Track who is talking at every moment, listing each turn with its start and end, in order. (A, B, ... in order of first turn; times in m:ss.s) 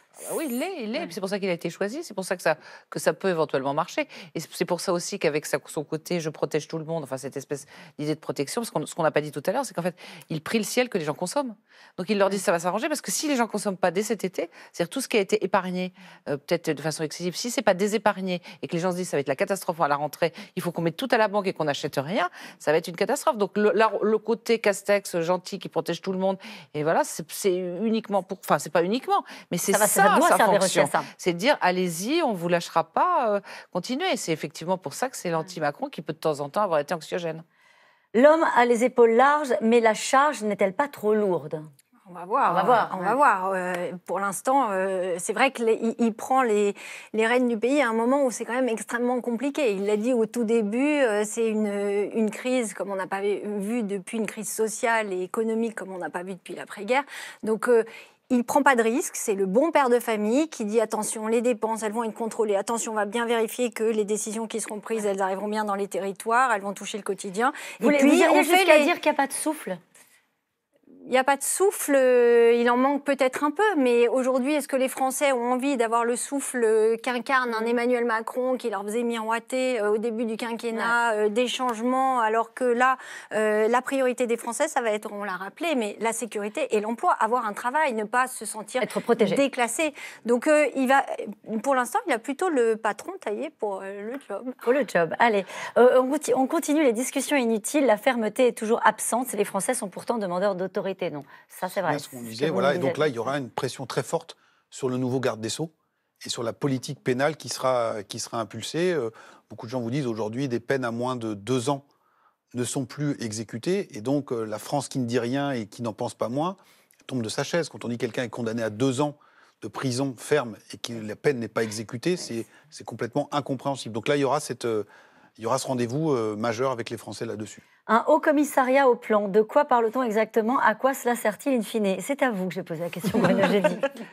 0:00.2-0:37.4 A
0:29.7-0:31.1 B
0:38.1-0:41.7 B
0:42.1-1:08.9 C
0:42.5-0:43.2 B
1:07.8-1:09.8 B
1:11.1-1:34.6 C
1:17.5-1:17.8 B
1:20.7-1:21.0 B
1:28.8-1:29.4 B
1:34.6-1:43.0 B
1:41.8-1:51.8 D
1:52.5-2:07.6 D
2:07.9-2:13.9 B